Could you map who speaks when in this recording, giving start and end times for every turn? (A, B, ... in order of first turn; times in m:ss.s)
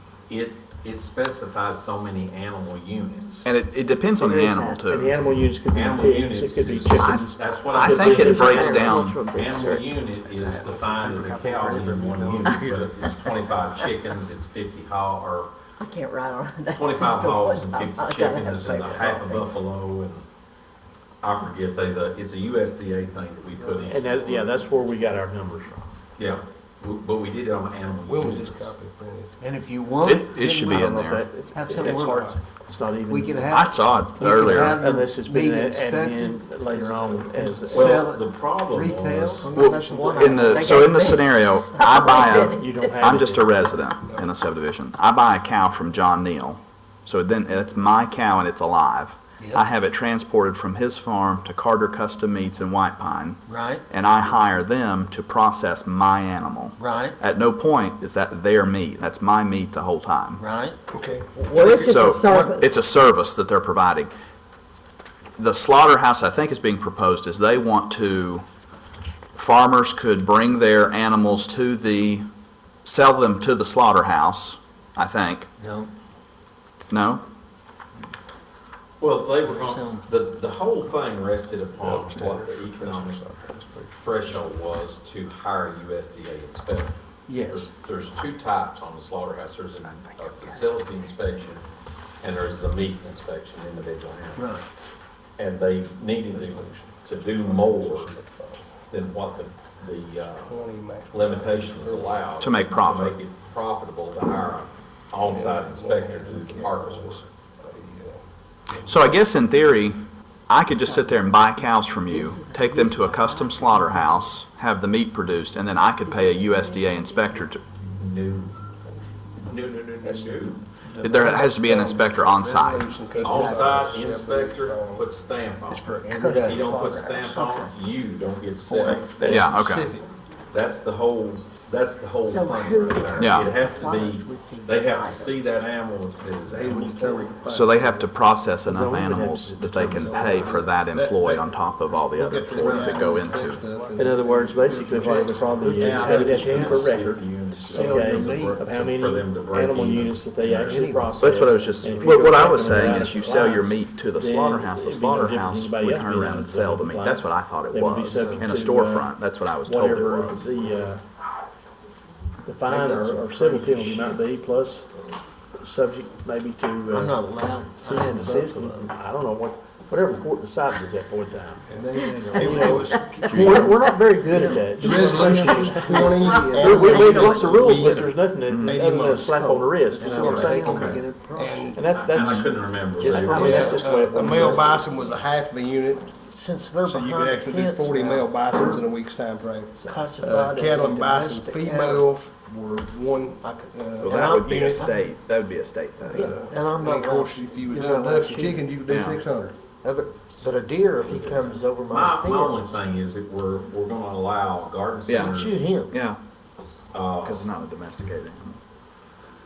0:00.3-0:03.5 A
0:03.4-0:05.2 B
0:04.2-0:04.8 C
0:04.9-0:08.7 D
0:05.7-0:15.5 A
0:07.0-0:09.2 B
0:08.1-0:09.9 C
0:10.3-0:12.9 E
0:15.8-0:19.5 C
0:16.7-0:20.2 A
0:21.2-0:24.5 A
0:23.8-0:25.9 D
0:26.2-0:28.7 A
0:28.0-0:29.3 F
0:29.4-0:30.9 E
0:30.0-0:31.2 B
0:30.7-0:33.6 D
0:31.5-0:32.3 E
0:33.1-0:41.2 E
0:33.5-0:34.8 B
0:34.2-0:38.0 D
0:37.7-0:39.5 A
0:39.5-1:00.4 B
0:39.5-0:42.7 C
0:42.5-0:43.7 D
0:53.5-0:53.8 E
0:56.8-0:57.2 E
1:00.4-1:00.8 E
1:00.9-1:01.4 F
1:01.4-1:02.7 C
1:01.5-1:04.1 B
1:02.2-1:02.7 E
1:05.4-1:08.4 B
1:09.3-1:12.2 B
1:12.8-1:15.5 B
1:15.6-1:15.9 E
1:16.9-1:17.2 B
1:19.0-1:23.2 A
1:19.4-1:20.0 E
1:21.8-1:24.0 F
1:24.0-1:26.9 A
1:27.3-1:27.7 E
1:27.4-1:31.6 A
1:30.0-1:30.6 E
1:32.2-1:34.5 A
1:34.4-1:34.6 E
1:35.4-1:38.1 A
1:36.3-1:38.7 F
1:38.9-1:40.5 A
1:40.2-1:42.3 F
1:41.1-1:47.2 A
1:42.4-1:43.2 B
1:45.2-1:48.9 F
1:48.8-1:50.0 B
1:50.5-1:57.6 B
1:50.7-1:51.2 C
1:52.0-1:54.2 C
1:56.0-1:57.2 C
1:57.9-1:58.5 A
1:59.4-2:00.6 A
2:00.0-2:05.1 F
2:01.0-2:02.9 B
2:03.2-2:09.4 A
2:03.2-2:03.8 E
2:05.7-2:07.0 F
2:06.0-2:07.7 E
2:08.7-2:10.0 F
2:09.2-2:09.9 B
2:10.5-2:17.4 A
2:12.2-2:15.6 C
2:13.2-2:13.5 B
2:16.5-2:18.1 F
2:17.5-2:23.6 B
2:18.6-2:20.5 D
2:19.7-2:21.5 F
2:22.1-2:25.7 F
2:22.6-2:23.0 E
2:23.9-2:39.1 D
2:24.9-2:27.0 E
2:25.8-2:30.8 A
2:27.6-2:28.7 E
2:30.5-2:31.4 E
2:31.2-2:40.6 B
2:38.0-2:38.4 E
2:39.6-2:41.0 D
2:42.4-2:44.9 D
2:42.7-2:43.8 F
2:45.6-2:51.7 D
2:46.9-2:48.9 E
2:51.7-2:53.2 E
2:52.3-3:00.7 D
2:52.4-2:53.7 F
2:52.9-2:53.9 C
2:53.3-2:53.7 B
2:54.2-2:58.1 E
2:54.8-2:58.1 F
2:55.3-2:57.2 C
2:58.4-2:58.8 B
2:58.6-2:59.3 F
2:59.1-3:01.8 E
3:00.5-3:00.8 C
3:00.6-3:01.0 A
3:01.3-3:01.8 F
3:01.7-3:02.5 D
3:01.9-3:03.8 A
3:03.0-3:05.2 E
3:03.0-3:04.9 D
3:03.3-3:06.2 F
3:06.2-3:08.8 E
3:06.8-3:14.9 F
3:09.8-3:12.1 E
3:13.4-3:15.1 E
3:14.0-3:16.4 B
3:16.0-3:18.8 E
3:16.1-3:19.6 F
3:18.9-3:19.2 B
3:19.7-3:22.8 E
3:21.1-3:21.4 F
3:21.9-3:25.7 A
3:25.1-3:26.2 B
3:25.2-3:25.9 E
3:26.9-3:27.5 A
3:27.2-3:28.6 B